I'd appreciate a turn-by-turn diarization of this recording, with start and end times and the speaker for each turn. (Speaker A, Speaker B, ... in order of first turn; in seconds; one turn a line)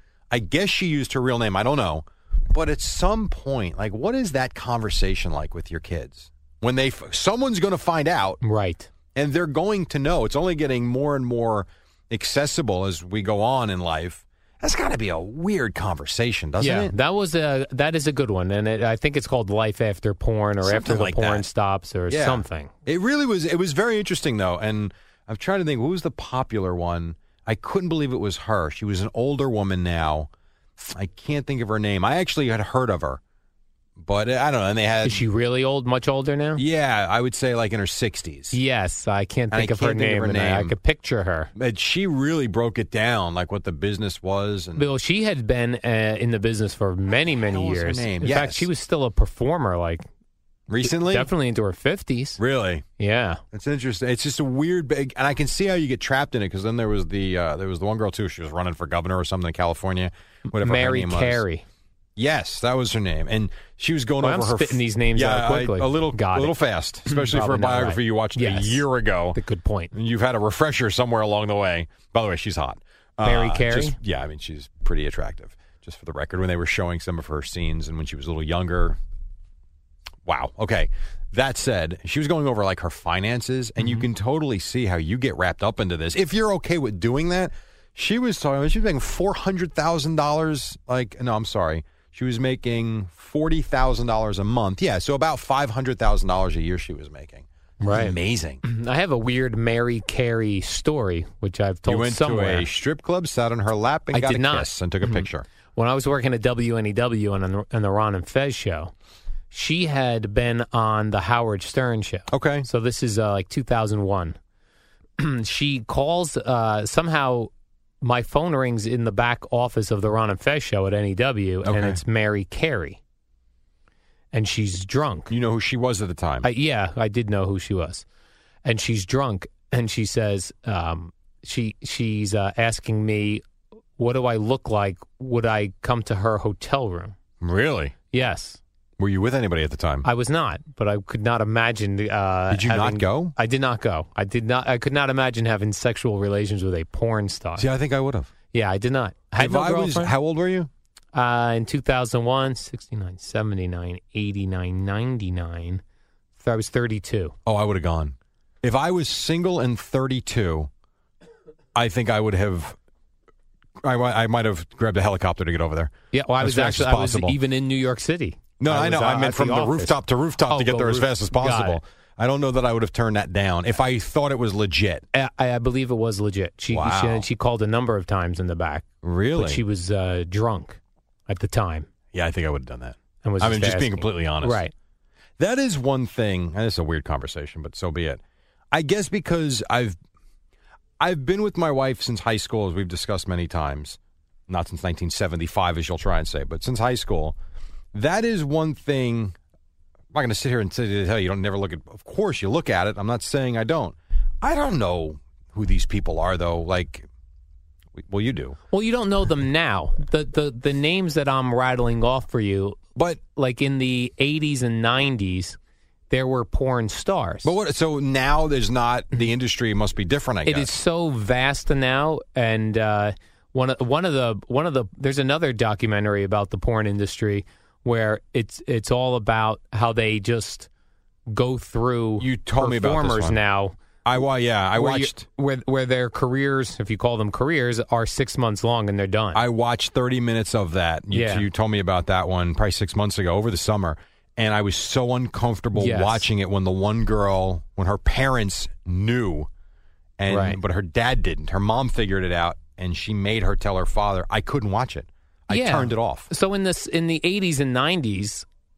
Speaker A: 0.3-8.4
Speaker B: 8.4-8.9
Speaker A: 9.2-16.9
Speaker B: 16.6-22.7
Speaker A: 20.6-21.4
Speaker A: 22.1-33.2
Speaker A: 34.0-35.2
Speaker B: 35.0-36.6
Speaker A: 36.6-38.6
Speaker B: 38.5-41.5
Speaker A: 39.5-40.8
Speaker A: 41.5-44.9
Speaker B: 44.8-50.1
Speaker A: 47.5-48.7
Speaker A: 50.7-51.3
Speaker B: 50.8-52.4
Speaker A: 52.4-52.9
Speaker B: 53.0-53.4
Speaker A: 53.5-61.4
Speaker B: 60.5-61.6
Speaker A: 62.2-69.4
Speaker B: 64.2-66.6
Speaker B: 67.1-69.9
Speaker A: 69.9-79.0
Speaker B: 73.2-74.0
Speaker A: 80.2-98.6
Speaker B: 83.8-84.0
Speaker B: 97.8-102.7
Speaker A: 101.9-105.5
Speaker B: 104.1-108.9
Speaker B: 109.5-114.4
Speaker A: 112.3-112.7
Speaker B: 115.2-123.0
Speaker A: 121.6-122.0
Speaker B: 124.3-125.3
Speaker A: 125.3-126.5
Speaker B: 126.4-128.1
Speaker B: 128.6-133.4
Speaker B: 134.0-137.2
Speaker A: 137.4-137.9
Speaker B: 138.1-138.6
Speaker A: 139.0-140.1
Speaker B: 140.0-147.7
Speaker A: 142.5-143.3
Speaker A: 147.6-148.3
Speaker B: 148.5-150.1
Speaker A: 149.4-150.7
Speaker B: 151.1-155.8
Speaker B: 156.4-157.3
Speaker A: 157.4-160.7
Speaker A: 161.7-162.8
Speaker A: 163.8-167.4
Speaker B: 166.1-169.9
Speaker A: 168.6-175.1
Speaker B: 170.5-171.8
Speaker B: 175.1-181.9
Speaker A: 176.7-177.2
Speaker A: 179.0-179.6
Speaker A: 182.1-184.6
Speaker B: 183.2-184.7
Speaker A: 185.4-188.2
Speaker A: 188.7-190.0
Speaker A: 191.0-197.4
Speaker A: 197.9-199.4
Speaker A: 200.1-207.1
Speaker A: 207.9-208.6
Speaker B: 208.7-212.8
Speaker B: 213.3-215.6
Speaker B: 216.1-217.5
Speaker A: 217.4-220.7
Speaker B: 220.4-230.7
Speaker B: 231.3-233.8
Speaker A: 232.2-233.4
Speaker A: 234.1-235.3
Speaker B: 234.8-239.4
Speaker A: 239.3-249.5
Speaker B: 241.1-241.5
Speaker B: 245.8-246.2
Speaker A: 250.2-256.3
Speaker B: 250.3-250.6
Speaker B: 255.5-258.5